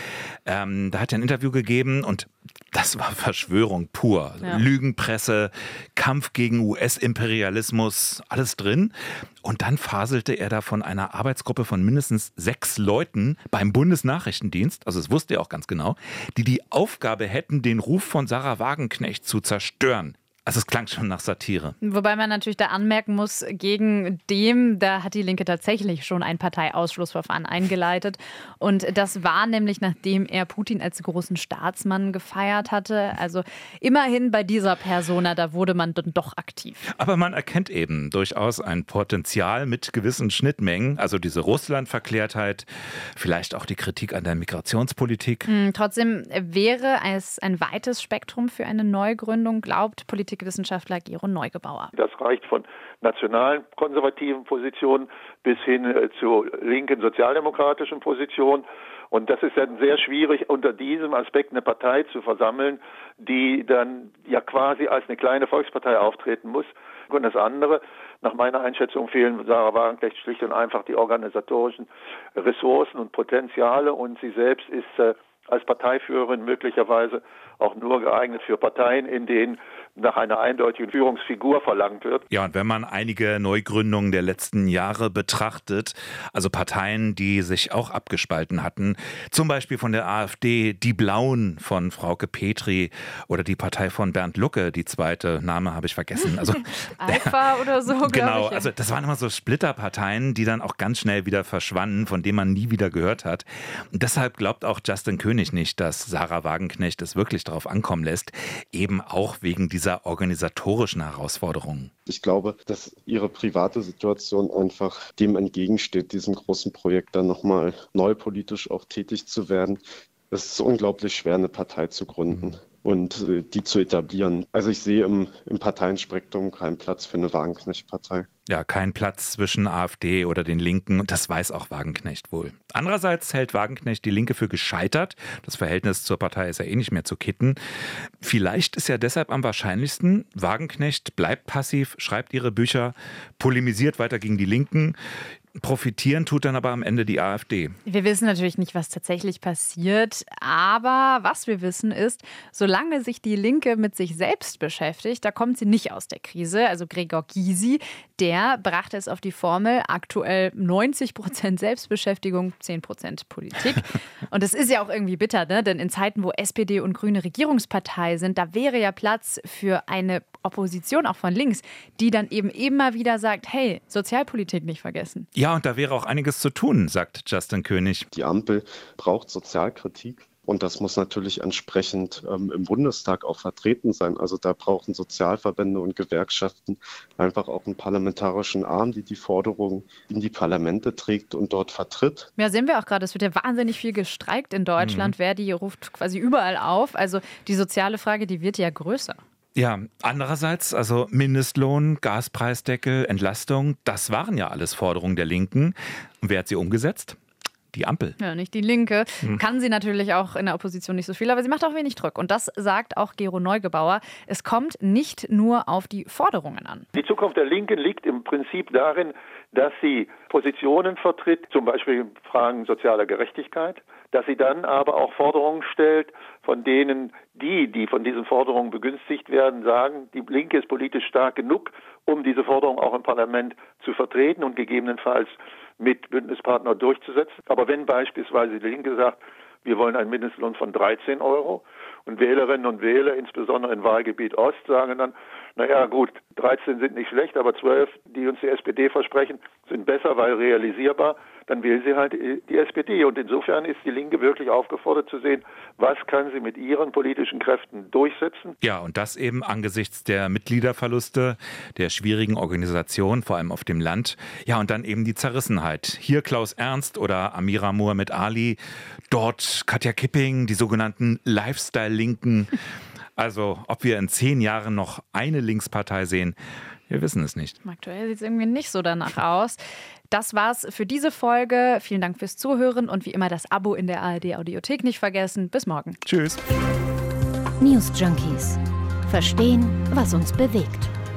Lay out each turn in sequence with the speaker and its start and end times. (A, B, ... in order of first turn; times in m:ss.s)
0:00.4-0:21.8 A
0:21.8-0:36.9 B
0:36.9-0:45.5 A
0:45.4-0:51.9 B
0:51.9-1:22.2 C
1:22.3-1:51.9 A
1:37.0-1:38.7 B
1:52.0-2:08.3 D
2:08.5-2:17.6 A
2:18.2-2:25.0 A
2:25.6-2:27.8 A
2:27.8-2:55.3 B
2:55.3-2:58.1 A
2:58.1-3:12.3 D
3:12.4-3:19.2 B
3:14.8-3:15.1 A
3:19.5-3:27.2 A
3:27.7-3:28.2 A
3:28.2-3:36.9 B
3:37.0-4:18.5 C
4:18.6-4:28.6 A
4:29.1-4:32.6 A
4:33.2-4:36.4 A
4:36.9-4:37.6 A
4:37.6-4:39.6 B
4:40.1-4:46.0 B
4:46.0-4:46.4 A
4:47.6-4:50.9 E